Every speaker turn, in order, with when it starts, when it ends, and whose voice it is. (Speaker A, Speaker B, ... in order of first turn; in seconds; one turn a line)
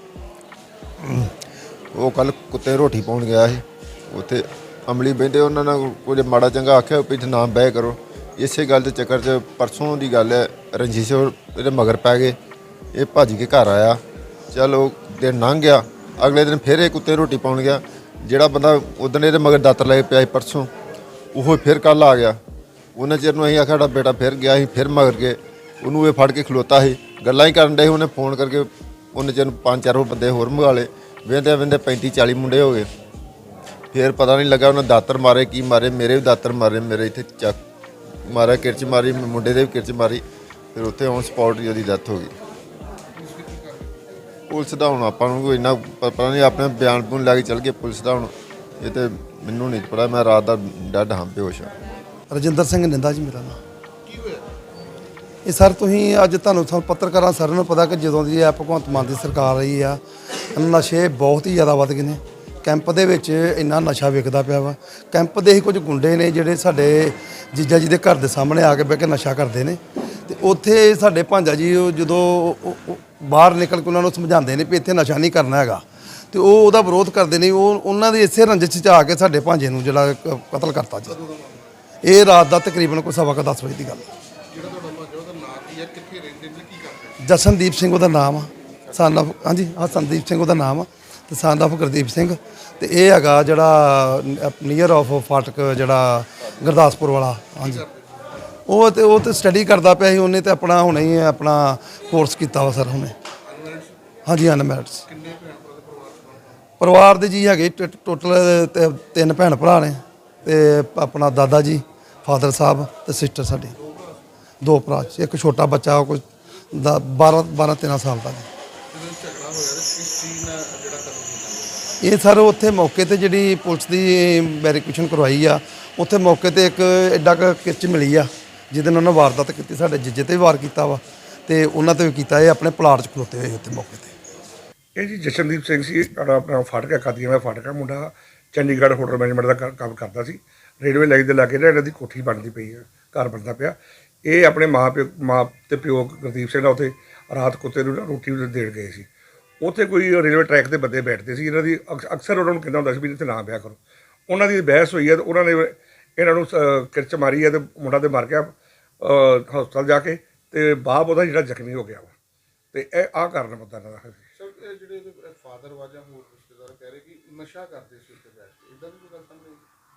Speaker A: 1.0-1.3
Speaker A: 1.9-12.4
Speaker A: 12.9-14.0
Speaker A: 14.5-20.7
Speaker A: 21.3-22.4
Speaker A: 23.0-32.9
Speaker A: 33.9-37.6
Speaker A: 38.2-42.3
Speaker B: 43.1-44.2
Speaker A: 44.5-51.7
Speaker C: 52.3-53.6
Speaker B: 54.0-54.5
Speaker C: 55.5-81.2
Speaker B: 81.1-81.8
Speaker C: 82.0-84.1
Speaker B: 84.5-87.2
Speaker C: 87.2-97.8
Speaker B: 97.6-98.3
Speaker C: 98.7-103.2
Speaker B: 103.4-104.0
Speaker C: 104.3-105.0
Speaker B: 105.1-106.7
Speaker C: 106.8-113.7
Speaker B: 113.8-114.2
Speaker C: 114.6-118.5
Speaker B: 118.9-121.9
Speaker C: 122.0-134.2
Speaker D: 135.0-149.1
Speaker D: 149.6-162.2
Speaker D: 162.7-164.2
Speaker B: 164.4-169.7